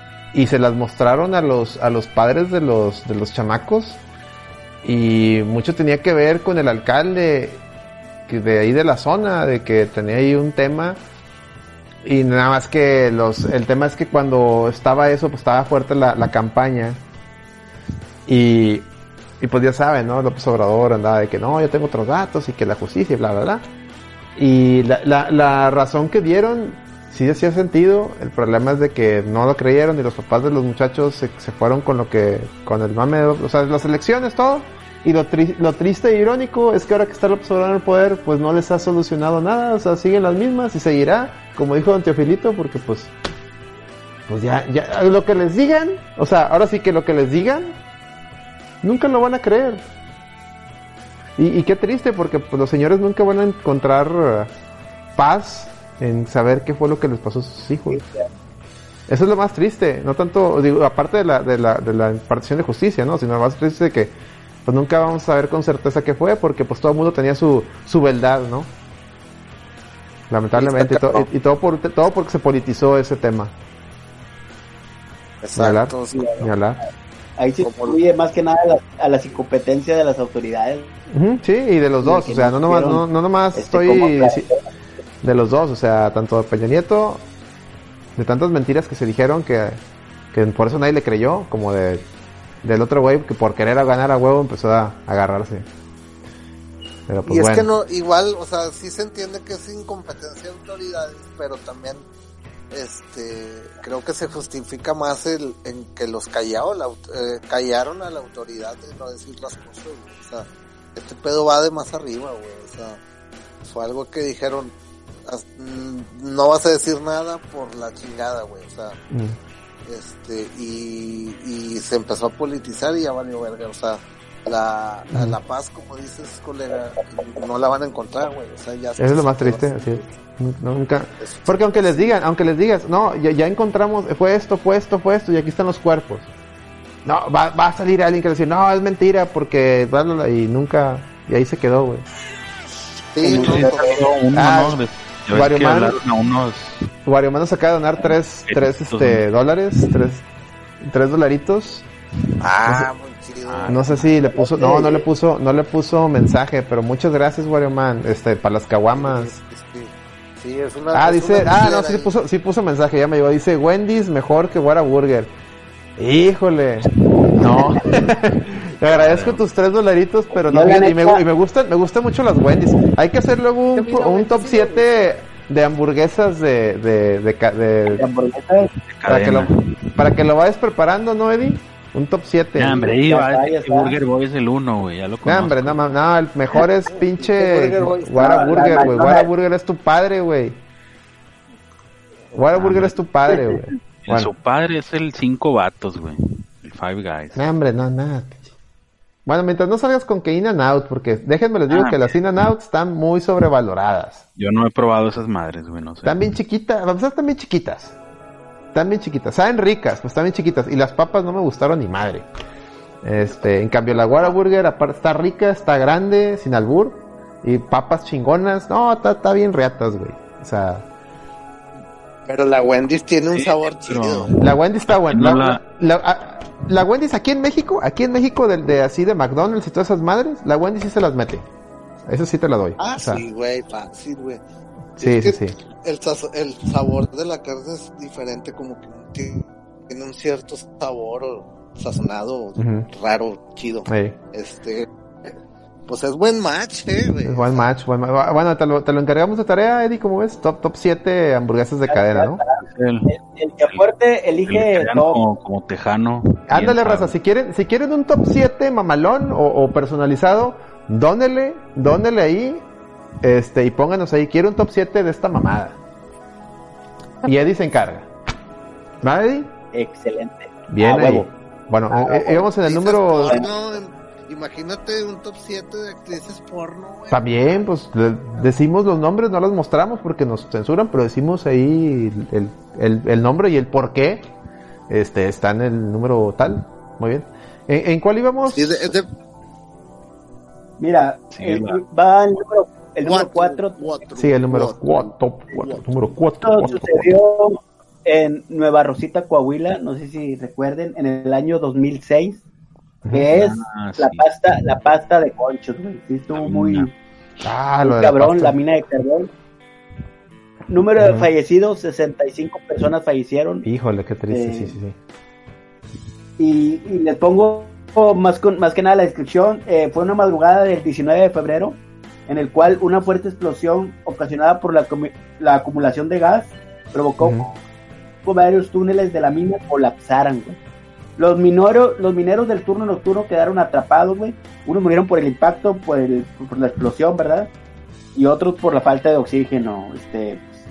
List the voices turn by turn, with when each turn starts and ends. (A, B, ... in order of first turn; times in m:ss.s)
0:00.3-0:04.0 A
0:04.8-0:07.6 A
0:08.3-0:11.0 A
0:12.0-0:17.0 A
0:18.3-0:18.9 A
0:19.4-0:23.7 A
0:24.4-0:43.1 A
0:44.3-0:47.8 A
0:48.8-0:49.8 A
0:51.4-0:54.5 A
0:55.2-0:58.0 A
0:59.1-1:08.7 A
1:10.3-1:13.5 A
1:10.5-1:11.3 B
1:15.4-1:16.3 B
1:15.6-1:16.8 A
1:16.1-1:20.9 C
1:17.6-1:18.0 B
1:21.1-1:24.5 A
1:22.0-1:24.6 C
1:25.2-1:27.2 A
1:28.2-1:29.8 A
1:30.3-1:32.0 A
1:32.6-1:35.7 A
1:37.1-1:37.7 A
1:37.3-1:42.0 B
1:42.7-1:53.0 B
1:53.6-1:54.7 B
1:55.2-1:59.0 B
1:59.1-1:59.4 A
1:59.8-2:10.1 B
2:05.1-2:05.4 A
2:09.0-2:16.3 A
2:11.2-2:12.2 B
2:17.0-2:22.1 A
2:23.1-2:24.0 B
2:23.2-2:24.0 C
2:23.3-2:26.8 D
2:24.3-2:26.0 A
2:27.0-2:30.2 A
2:28.5-2:29.2 D
2:30.8-2:31.9 A
2:32.4-2:35.0 B
2:33.4-2:34.1 D
2:33.7-2:39.3 A
2:34.6-2:34.9 C
2:38.9-2:42.1 B
2:40.9-2:45.3 A
2:46.0-2:58.0 A
2:47.3-2:48.2 D
2:48.8-2:49.4 D
2:50.5-2:51.2 C
2:53.7-2:55.1 B
2:57.9-2:58.7 C
2:58.8-3:00.0 D
2:59.1-3:03.0 A
3:02.6-3:05.8 D
3:02.9-3:04.0 C
3:05.2-3:10.6 A
3:06.9-3:08.8 B
3:08.1-3:09.3 C
3:12.3-3:14.3 A
3:12.5-3:13.0 D
3:14.0-3:17.4 D
3:17.4-3:18.5 A
3:19.3-3:24.2 A
3:21.7-3:22.1 D
3:24.4-3:26.2 D
3:26.0-3:28.0 A
3:28.7-3:32.3 A
3:33.0-3:40.9 A
3:42.3-3:44.3 B
3:43.3-3:45.6 D
3:44.4-3:51.4 A
3:52.0-3:53.2 A
3:52.8-3:54.4 B
3:55.0-3:55.6 A
3:55.0-4:05.3 B
4:02.6-4:02.9 A
4:03.9-4:04.2 A
4:05.9-4:07.7 B
4:07.2-4:12.4 A
4:11.9-4:15.2 C
4:12.6-4:13.1 D
4:14.5-4:17.1 D
4:16.5-4:22.7 A
4:23.2-4:25.8 A
4:27.2-4:28.1 A
4:29.0-4:29.5 A
4:29.7-4:31.3 C
4:30.7-4:33.5 A
4:31.9-4:32.4 C
4:32.6-4:37.6 B
4:37.1-4:44.2 A
4:44.9-4:48.9 A
4:48.5-4:49.1 B
4:50.8-4:53.9 C
4:51.3-4:51.8 D
4:53.0-4:55.9 B
4:54.2-4:57.1 A
4:56.4-5:02.4 C
5:03.0-5:03.3 A
5:03.1-5:06.9 C
5:03.3-5:04.3 D
5:06.3-5:06.9 D
5:07.4-5:08.6 A
5:07.8-5:09.3 C
5:10.7-5:13.7 C
5:11.0-5:11.3 A
5:13.6-5:15.0 A
5:14.3-5:14.8 C
5:16.4-5:27.6 C
5:27.2-5:27.5 A
5:28.2-5:30.6 C
5:31.2-5:37.5 C
5:38.1-5:40.4 C